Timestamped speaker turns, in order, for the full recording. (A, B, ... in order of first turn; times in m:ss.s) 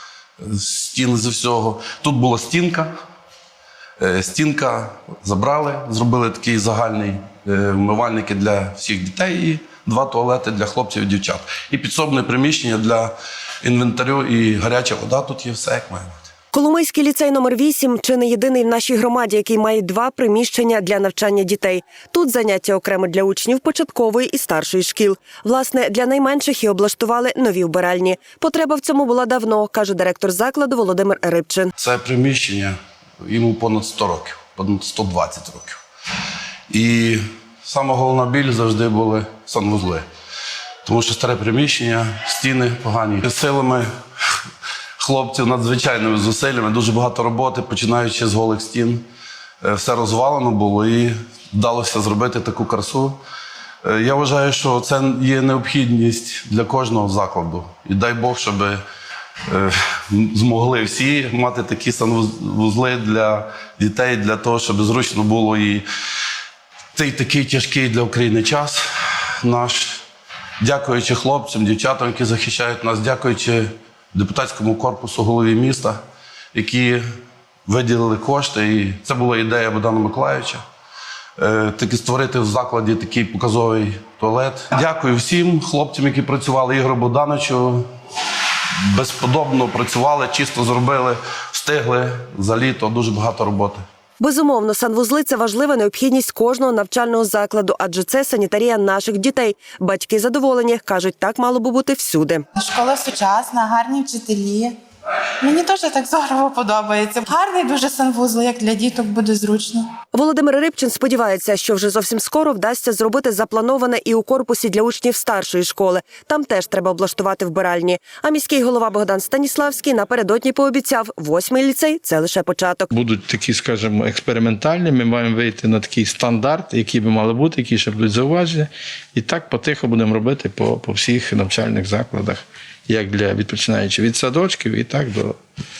0:00.4-0:02.9 A
0:04.0-0:16.2 A
0:16.5-0:31.7 B
0:31.8-0:35.8 A
0:36.7-0:40.0 A
0:40.8-0:43.9 A
0:45.0-0:49.0 A
0:49.6-0:53.2 A
0:53.8-0:58.8 A
0:59.5-1:05.8 A
1:06.9-1:08.8 A
1:09.4-1:10.0 A
1:10.6-1:16.0 A
1:16.5-1:17.0 A
1:17.6-1:20.6 A
1:21.4-1:27.9 A
1:28.9-1:33.8 A
1:34.2-1:42.4 B
1:42.6-1:44.8 C
1:45.4-1:49.9 C
1:50.1-2:02.9 B
2:02.9-2:15.4 D